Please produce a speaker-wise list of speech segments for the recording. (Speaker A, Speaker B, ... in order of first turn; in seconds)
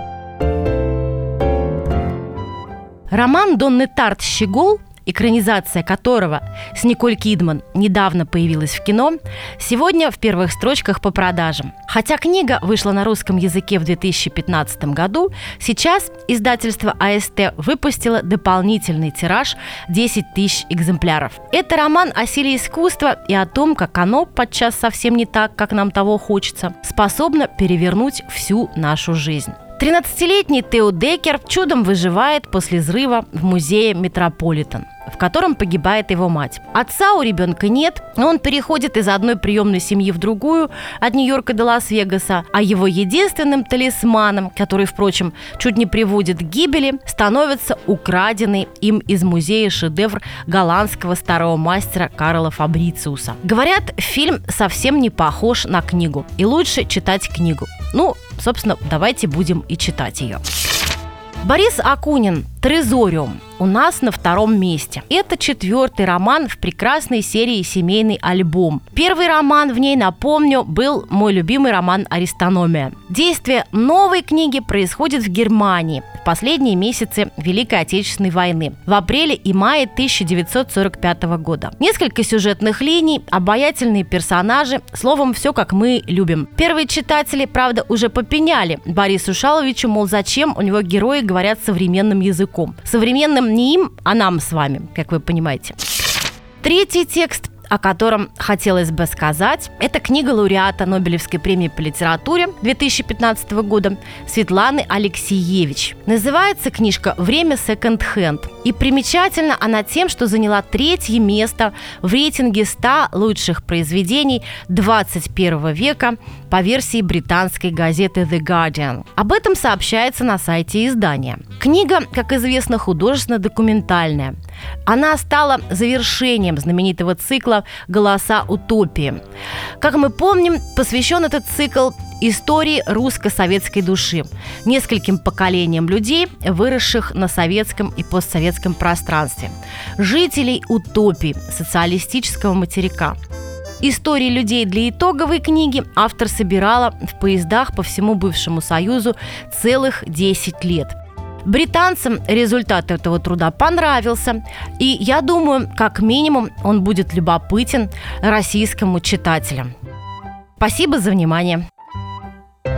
Speaker A: 3.1-60.4, 61.4-95.8, 96.6-129.2, 129.8-143.2, 143.8-159.7, 160.6-161.6